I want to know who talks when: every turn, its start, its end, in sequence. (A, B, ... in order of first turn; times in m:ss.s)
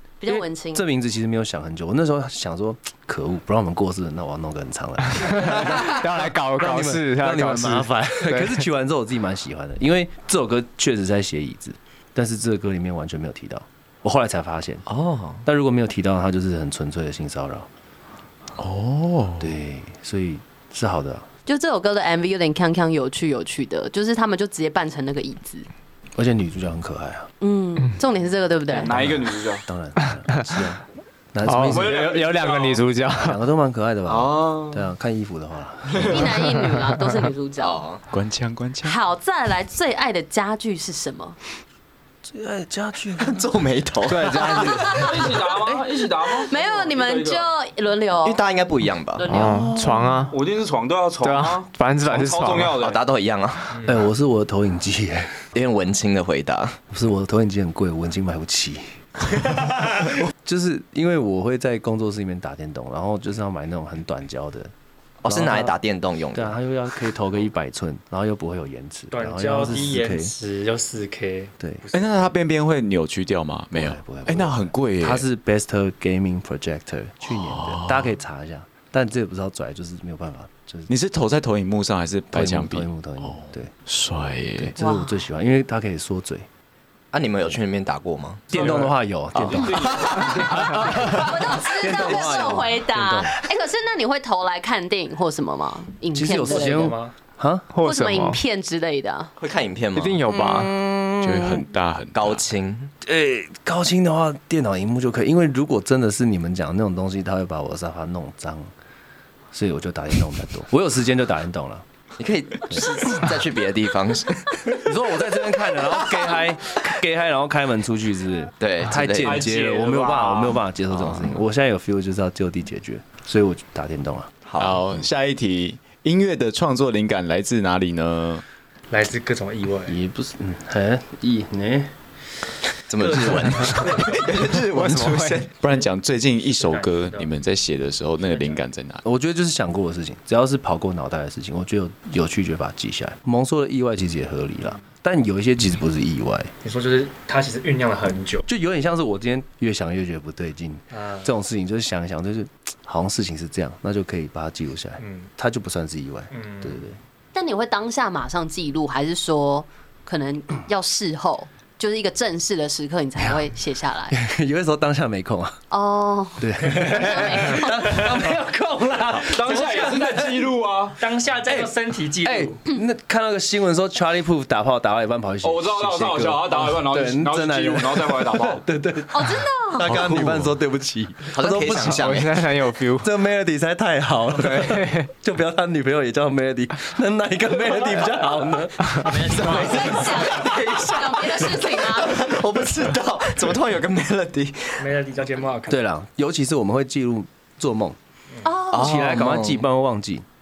0:00.2-0:00.9 A
0:00.3-0:14.8 B
0:05.2-0:08.6 C
0:14.9-0:15.4 D
0:15.4-0:17.7 B
0:18.6-0:19.6 E
0:19.4-0:21.3 B
0:21.5-0:25.7 A
0:26.2-0:27.3 B
0:27.4-0:28.9 A
0:28.7-0:29.7 F
0:28.9-0:30.8 B
0:31.3-0:32.1 B
0:31.4-0:33.4 C
0:31.6-0:32.8 F
0:33.2-0:36.5 B
0:34.1-0:34.8 D
0:36.1-0:37.8 A
0:36.6-0:37.2 C
0:37.6-0:38.0 D
0:38.1-0:39.0 E
0:38.8-0:41.4 A
0:42.2-0:43.4 B
0:43.2-0:44.6 D
0:44.1-0:44.9 C
0:44.1-0:45.9 B
0:44.6-0:45.1 A
0:44.8-0:47.5 F
0:46.4-0:48.4 A
0:48.2-0:49.5 D
0:49.2-0:49.6 A
0:49.3-0:50.4 C
0:49.4-0:50.0 B
0:50.3-0:53.0 F
0:51.2-0:52.8 C
0:52.8-0:53.8 D
0:53.8-0:55.5 B
0:55.5-0:56.8 D
0:56.9-1:04.7 B
1:05.2-1:06.6 D
1:05.3-1:05.8 B
1:06.3-1:10.4 B
1:09.1-1:12.1 G
1:11.6-1:11.8 B
1:11.9-1:15.3 E
1:13.7-1:20.9 B
1:17.3-1:18.1 E
1:20.9-1:24.7 E
1:22.3-1:23.7 B
1:24.6-1:26.5 B
1:24.8-1:25.2 A
1:27.1-1:28.5 D
1:28.5-1:33.4 B
1:28.5-1:30.8 F
1:29.6-1:36.9 A
1:29.9-1:31.0 D
1:36.1-1:37.7 B
1:36.4-1:37.2 G
1:37.7-1:38.4 C
1:37.8-1:39.3 A
1:39.4-1:40.3 D
1:40.0-1:40.8 C
1:40.3-1:41.7 B
1:41.2-1:42.4 E
1:42.2-1:42.9 D
1:43.0-1:48.7 B
1:49.5-1:51.9 B
1:52.2-1:54.8 D
1:52.7-1:53.3 B
1:54.8-2:04.3 B
1:58.6-1:59.5 D
1:59.2-2:00.6 F
2:00.9-2:01.4 D
2:04.5-2:04.9 D
2:04.6-2:08.4 E
2:08.9-2:10.0 G
2:09.9-2:12.0 B
2:12.9-2:15.5 D
2:13.0-2:14.2 G
2:14.6-2:15.4 C
2:15.5-2:19.0 E
2:16.5-2:17.4 G
2:18.2-2:18.6 G
2:19.0-2:26.5 B
2:26.6-2:28.4 G
2:28.5-2:37.0 B
2:30.9-2:31.3 G
2:35.0-2:35.3 G
2:36.3-2:36.8 G
2:37.3-2:44.2 A
2:44.1-2:45.6 B
2:45.7-2:47.9 A
2:46.4-2:50.4 B
2:46.7-2:47.2 G
2:47.7-2:50.3 G
2:49.4-2:51.0 F
2:51.0-2:52.6 G
2:51.5-3:02.2 B
2:55.4-2:58.6 F
2:59.1-3:00.0 A
2:59.8-3:00.5 E
3:01.3-3:02.4 D
3:01.8-3:03.1 C
3:03.0-3:09.7 B
3:04.6-3:05.1 C
3:09.0-3:10.4 G
3:09.4-3:15.0 D
3:09.5-3:12.2 A
3:14.8-3:15.8 G
3:15.7-3:18.0 B
3:18.4-3:19.0 A
3:18.7-3:19.7 D
3:18.8-3:20.3 B